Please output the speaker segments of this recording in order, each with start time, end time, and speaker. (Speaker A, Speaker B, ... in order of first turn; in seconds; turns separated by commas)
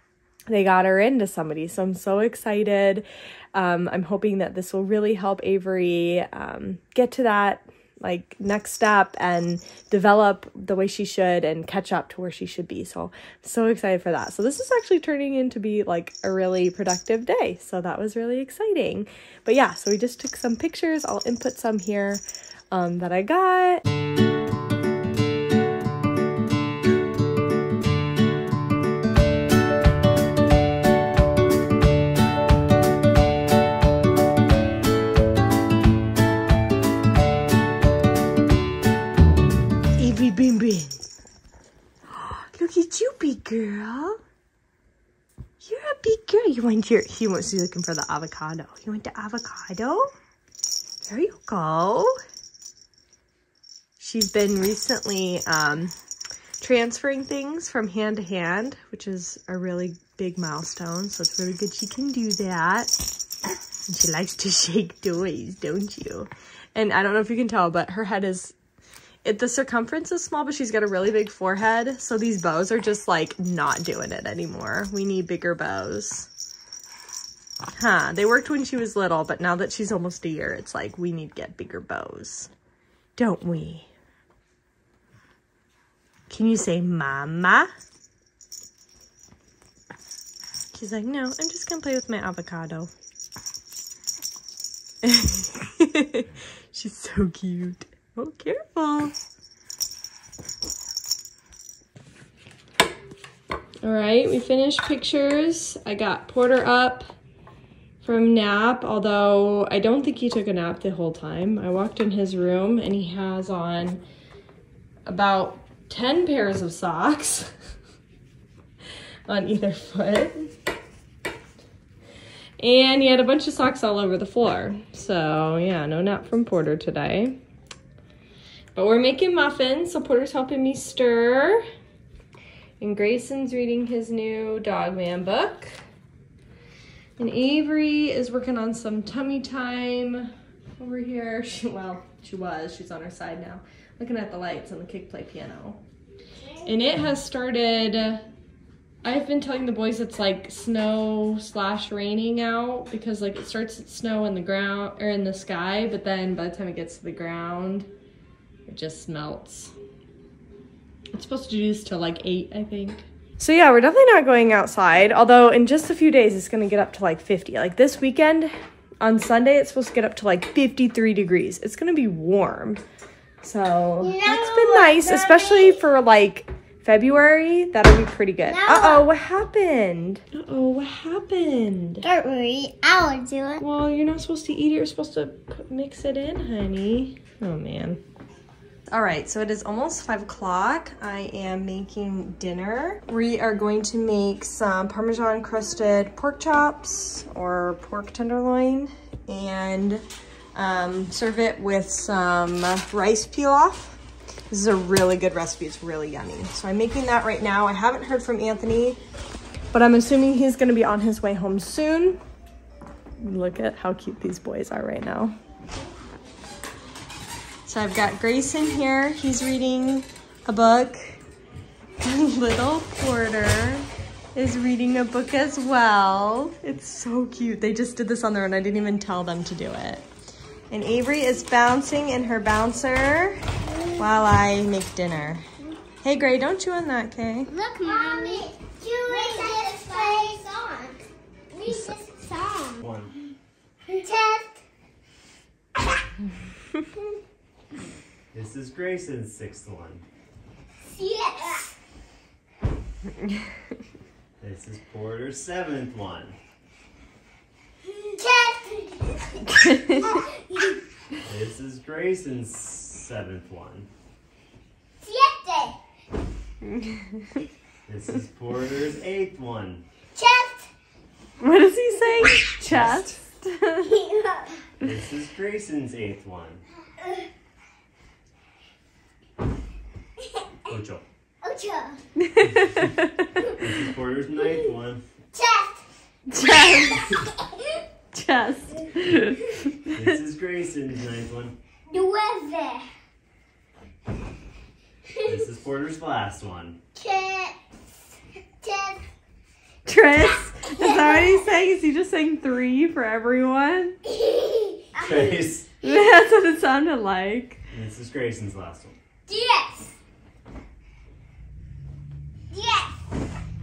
Speaker A: 0.5-23.8, Speaker A: 40.0-41.0, Speaker A: 42.1-44.2, Speaker A: 45.6-50.1, Speaker A: 51.0-52.1, Speaker A: 54.0-55.9, Speaker A: 56.6-62.9, Speaker A: 63.9-68.6, Speaker A: 69.2-76.3, Speaker A: 77.8-82.5, Speaker A: 83.2-83.9, Speaker A: 86.3-87.7, Speaker A: 90.7-92.9, Speaker A: 95.0-99.1, Speaker A: 103.8-107.1, Speaker A: 108.0-114.0, Speaker A: 115.1-117.5, Speaker A: 119.3-120.5, Speaker A: 122.6-127.4, Speaker A: 128.8-131.6, Speaker A: 132.8-135.8, Speaker A: 137.2-145.8, Speaker A: 146.6-148.2, Speaker A: 149.0-157.9, Speaker A: 158.7-159.7, Speaker A: 161.1-172.8, Speaker A: 173.4-182.1, Speaker B: 174.0-175.8, Speaker B: 178.4-179.1, Speaker B: 182.0-183.6, Speaker A: 183.6-188.0, Speaker A: 188.9-200.0, Speaker A: 200.6-204.0, Speaker A: 204.5-209.0, Speaker A: 209.7-212.2, Speaker A: 213.2-215.3, Speaker A: 217.7-221.2, Speaker A: 222.0-230.1, Speaker A: 230.7-233.4, Speaker B: 233.7-234.0, Speaker A: 234.0-235.5, Speaker A: 236.0-237.5, Speaker B: 237.5-242.8, Speaker C: 242.8-243.2, Speaker B: 243.9-244.6, Speaker C: 248.3-250.0, Speaker B: 250.8-251.7, Speaker C: 254.4-256.4, Speaker B: 257.9-260.8, Speaker A: 259.6-260.0, Speaker C: 261.3-263.9, Speaker B: 265.0-265.8, Speaker A: 266.8-267.1, Speaker C: 267.9-269.8, Speaker B: 270.2-270.7, Speaker A: 271.4-273.9, Speaker C: 272.7-273.1, Speaker B: 273.8-274.6, Speaker C: 274.8-276.6, Speaker C: 280.7-281.1, Speaker B: 281.4-282.0, Speaker A: 282.3-283.2, Speaker C: 282.5-282.8, Speaker C: 283.5-285.0, Speaker B: 285.3-285.8, Speaker A: 286.3-287.2, Speaker A: 288.1-290.2, Speaker C: 289.9-291.6, Speaker B: 291.9-292.9, Speaker C: 295.2-296.8, Speaker B: 296.9-297.6, Speaker B: 298.6-299.0, Speaker A: 299.9-304.0, Speaker B: 300.7-301.4, Speaker B: 304.2-305.2, Speaker C: 304.9-305.7, Speaker A: 305.8-307.6, Speaker C: 307.7-309.0, Speaker B: 309.3-310.0, Speaker B: 312.5-313.0